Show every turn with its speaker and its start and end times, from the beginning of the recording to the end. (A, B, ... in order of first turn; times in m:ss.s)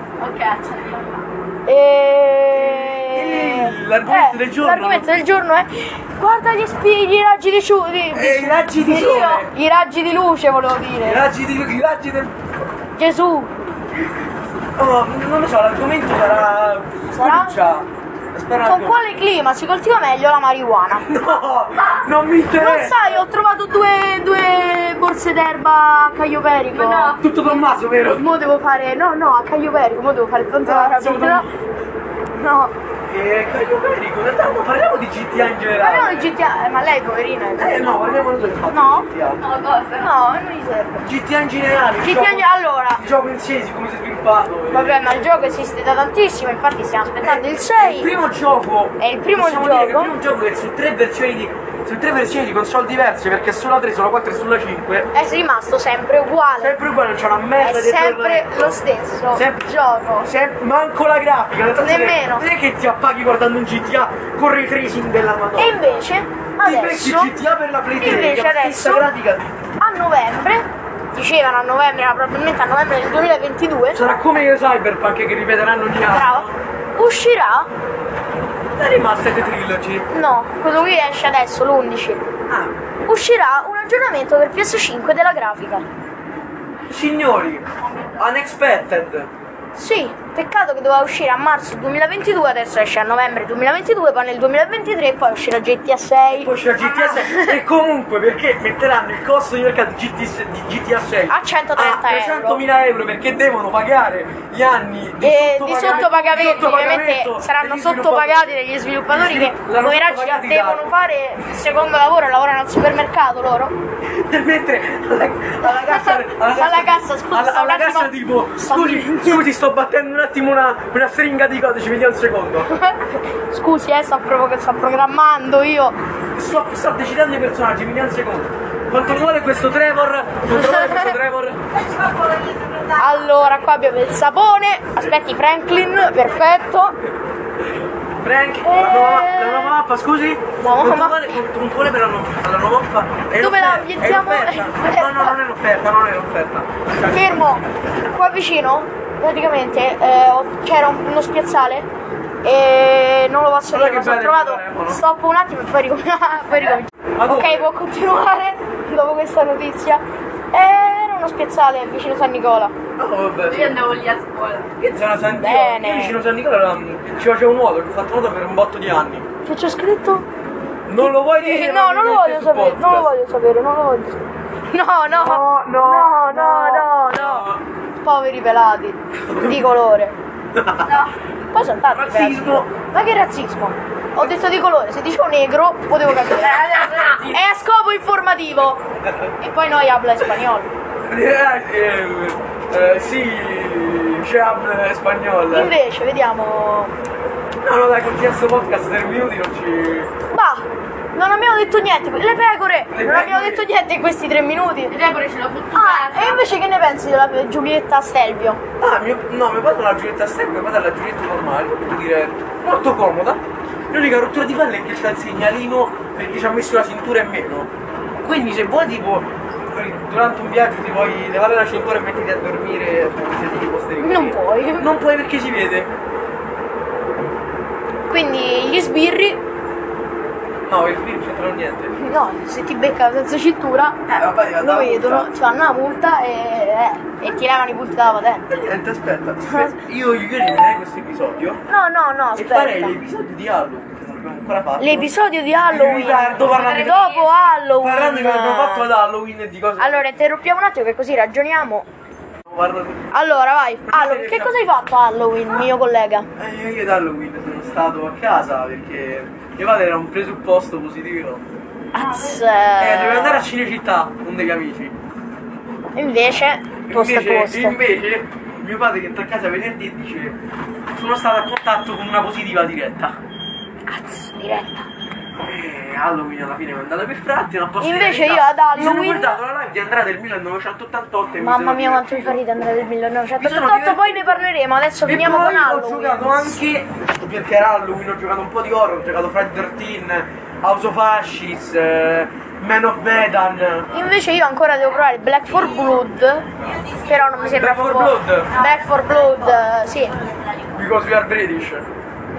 0:00.2-0:01.2 A
0:01.7-0:11.3 B
0:02.5-0:05.1 C
0:08.1-0:09.5 C
0:11.0-0:12.3 C
0:13.0-0:13.5 B
0:14.8-0:19.0 C
0:17.1-0:17.6 B
0:18.6-0:21.1 B
0:21.0-0:23.3 C
0:21.8-0:27.2 B
0:26.8-0:27.3 A
0:27.1-0:28.3 C
0:28.2-0:31.5 B
0:30.6-0:31.5 C
0:32.3-0:32.7 B
0:33.1-0:36.3 C
0:35.8-0:39.1 B
0:37.6-0:39.4 C
0:39.4-0:40.1 A
0:39.9-0:41.1 B
0:41.0-0:45.6 C
0:42.0-0:43.0 B
0:44.7-0:48.1 B
0:47.2-0:55.1 C
0:49.0-0:50.2 B
0:55.1-0:56.8 B
0:56.6-0:58.8 C
0:57.6-1:00.3 B
0:59.3-0:59.7 C
1:00.2-1:05.9 C
1:01.8-1:02.5 B
1:05.6-1:07.3 B
1:06.6-1:09.5 C
1:08.0-1:09.1 B
1:09.8-1:14.0 B
1:13.9-1:16.6 C
1:16.1-1:17.7 B
1:18.7-1:20.1 C
1:20.1-1:22.3 B
1:23.1-1:25.8 B
1:26.9-1:27.7 C
1:28.2-1:29.3 C
1:29.8-1:37.6 B
1:36.3-1:48.5 C
1:41.3-1:42.6 B
1:45.2-1:53.7 B
1:49.1-1:50.8 C
1:54.2-2:02.7 C
1:55.6-1:59.4 B
2:02.7-2:06.0 B
2:06.4-2:11.6 C
2:10.5-2:11.2 B
2:12.9-2:17.0 B
2:18.2-2:27.6 C
2:18.6-2:19.8 B
2:20.6-2:21.3 B
2:23.4-2:25.4 B
2:27.1-2:31.9 B
2:32.4-2:42.7 B
2:33.7-2:35.0 C
2:37.2-2:37.7 C
2:43.0-2:43.8 C
2:43.5-2:44.8 A
2:44.8-2:49.3 C
2:45.4-2:46.2 B
2:49.4-2:50.3 B
2:50.9-2:53.1 C
2:51.0-2:57.5 B
2:55.1-2:57.6 C
2:58.0-3:00.2 B
2:59.3-2:59.6 C
3:00.5-3:01.0 C
3:01.5-3:08.8 B
3:01.9-3:02.7 C
3:06.6-3:07.4 A
3:09.4-3:10.7 B
3:11.0-3:15.7 C
3:15.5-3:16.9 B
3:17.6-3:20.1 C
3:20.3-3:25.0 B
3:22.9-3:23.7 C
3:24.9-3:26.4 A
3:25.7-3:28.6 B
3:28.8-3:45.9 C
3:44.0-3:44.9 B
3:48.1-3:49.4 B
3:50.7-3:51.9 C
3:52.0-3:54.0 B
3:54.1-3:55.3 C
3:54.6-3:58.5 B
3:58.5-4:01.6 C
3:59.5-3:59.8 B
4:01.7-4:03.0 B
4:02.4-4:05.2 C
4:04.8-4:08.9 B
4:05.7-4:07.0 C
4:06.2-4:07.6 A
4:07.8-4:10.1 C
4:09.8-4:11.9 B
4:12.5-4:13.0 C
4:13.1-4:16.3 B
4:13.9-4:14.6 C
4:16.4-4:21.4 C
4:21.9-4:23.4 B
4:22.8-4:24.9 C
4:26.0-4:27.8 B
4:26.9-4:30.4 C
4:30.9-4:33.2 C
4:33.9-4:34.9 B
4:35.4-4:42.4 C
4:37.8-4:39.4 B
4:41.4-4:46.6 B
4:43.4-4:44.0 C
4:45.1-4:53.9 C
4:53.9-5:00.2 B
4:57.5-4:58.6 C
5:00.7-5:01.9 C